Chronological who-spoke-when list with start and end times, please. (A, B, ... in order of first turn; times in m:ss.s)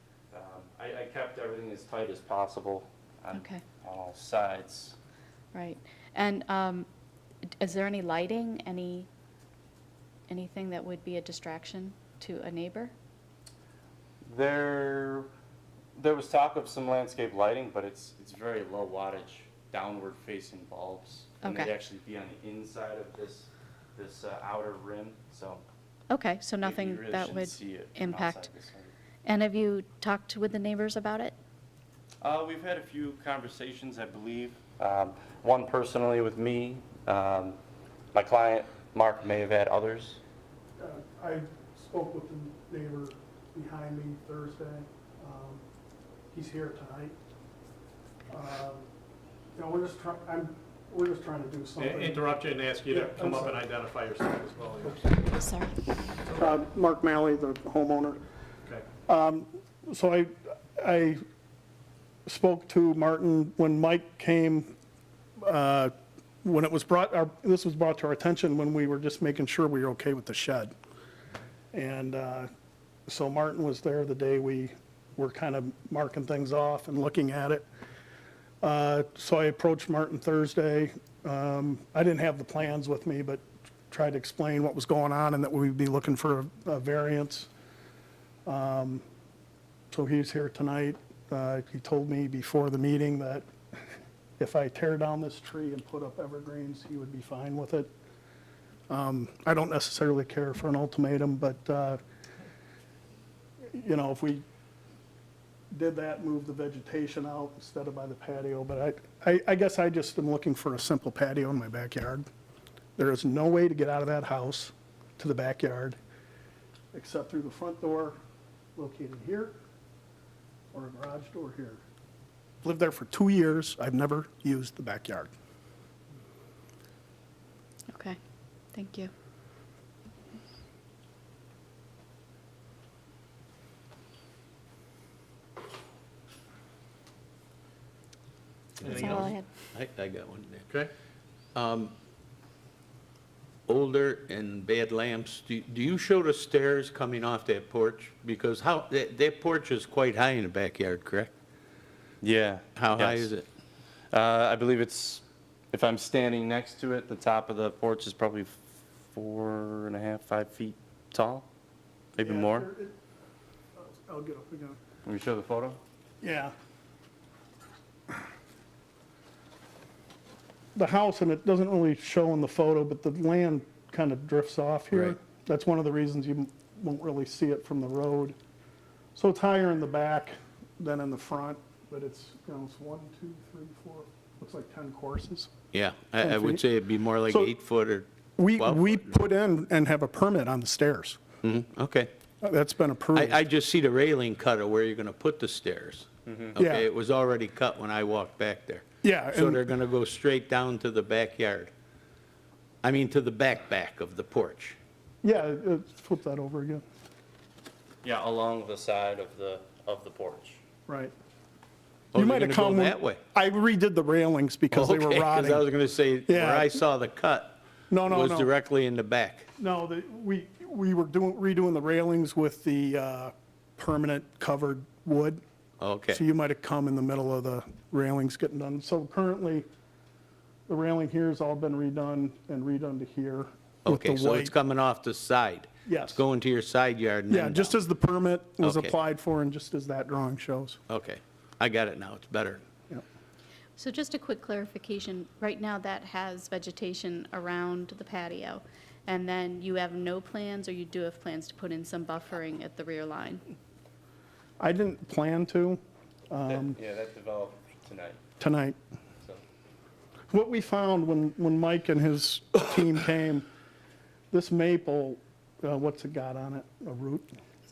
0:00.3-0:05.0 A
0:03.3-0:03.6 B
0:05.5-0:06.8 B
0:07.6-0:09.1 B
0:10.3-0:12.9 B
0:14.2-0:15.3 A
0:15.9-0:25.6 A
0:21.4-0:21.7 B
0:26.1-0:28.5 B
0:26.6-0:28.9 A
0:29.2-0:31.4 B
0:32.2-0:37.6 A
0:38.1-0:40.2 A
0:40.8-0:45.6 C
0:46.3-0:47.2 C
0:48.3-0:48.9 C
0:49.5-0:52.2 C
0:51.8-0:55.3 D
0:52.9-0:53.6 C
0:55.3-0:55.7 B
0:56.2-0:56.6 D
0:56.3-0:58.2 C
0:59.0-1:01.2 C
1:02.2-1:04.7 C
1:05.4-1:05.9 C
1:06.4-1:10.7 C
1:11.7-1:12.5 C
1:13.1-1:17.6 C
1:18.6-1:27.5 C
1:28.4-1:29.0 C
1:29.9-1:33.8 C
1:34.4-1:37.9 C
1:38.9-1:42.0 C
1:43.7-1:44.4 C
1:45.7-1:52.2 C
1:53.0-1:56.0 C
1:56.9-1:58.2 C
1:58.8-1:59.6 C
2:00.7-2:01.8 C
2:02.6-2:05.3 C
2:07.9-2:08.2 B
2:08.7-2:09.1 B
2:18.8-2:20.7 E
2:18.8-2:19.3 D
2:19.1-2:19.4 B
2:21.5-2:21.9 E
2:23.7-2:31.3 E
2:32.2-2:33.3 A
2:32.8-2:33.4 E
2:34.1-2:41.5 A
2:42.2-2:42.7 A
2:42.2-2:43.0 C
2:43.8-2:44.8 C
2:45.0-2:45.8 A
2:46.2-2:46.5 C
2:50.7-2:58.4 C
2:59.1-3:05.5 C
3:05.7-3:09.1 E
3:06.2-3:06.6 C
3:07.3-3:07.5 C
3:08.4-3:11.2 C
3:11.4-3:12.1 E
3:12.4-3:13.4 C
3:13.1-3:21.7 E
3:16.2-3:16.6 A
3:16.6-3:16.9 C
3:19.0-3:19.6 C
3:22.8-3:24.8 E
3:25.2-3:26.8 C
3:28.0-3:30.6 A
3:30.9-3:31.1 C
3:32.1-3:33.2 E
3:32.1-3:35.7 C
3:34.7-3:39.5 E
3:36.2-3:36.8 C
3:37.9-3:38.5 C
3:39.6-3:45.4 C
3:45.8-3:46.2 E
3:46.1-3:49.7 C
3:50.7-3:54.5 C
3:53.8-3:57.7 E
3:55.8-3:56.2 C
3:57.3-4:00.8 C
3:58.6-3:58.9 E
4:00.9-4:02.6 E
4:03.8-4:13.4 B
4:14.6-4:16.8 C
4:16.4-4:18.2 A
4:18.4-4:18.8 C
4:20.3-4:23.5 C
4:24.3-4:27.3 C